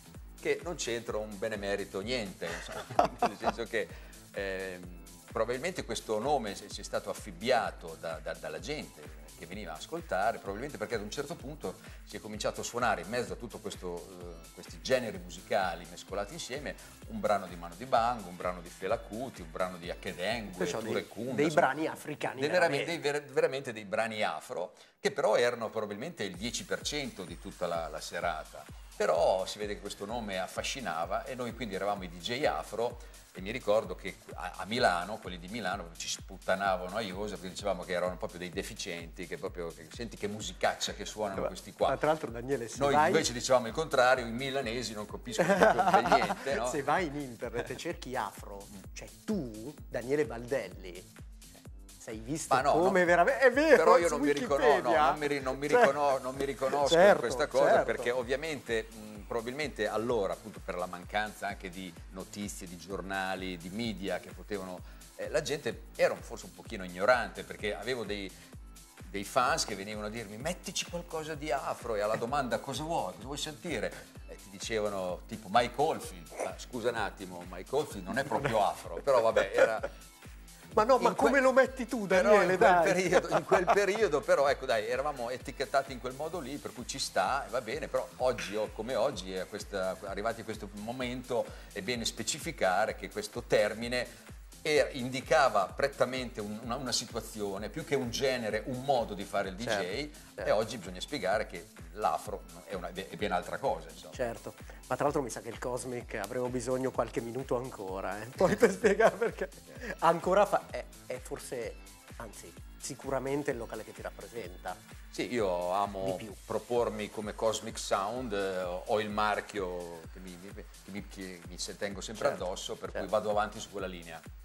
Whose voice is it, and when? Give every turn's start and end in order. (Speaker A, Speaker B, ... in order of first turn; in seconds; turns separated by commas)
Speaker A: 0.4-21.7, Speaker B: 20.5-23.0, Speaker A: 22.3-42.0, Speaker B: 41.4-43.3, Speaker A: 42.8-46.9, Speaker B: 45.4-51.1, Speaker B: 52.0-56.0, Speaker A: 52.5-53.0, Speaker A: 53.7-68.3, Speaker B: 56.7-58.1, Speaker A: 69.0-79.9, Speaker B: 80.7-83.8, Speaker A: 81.0-81.4, Speaker A: 82.1-94.1, Speaker A: 94.6-104.3, Speaker B: 99.6-100.5, Speaker B: 104.1-114.8, Speaker A: 115.1-124.2, Speaker B: 116.0-116.4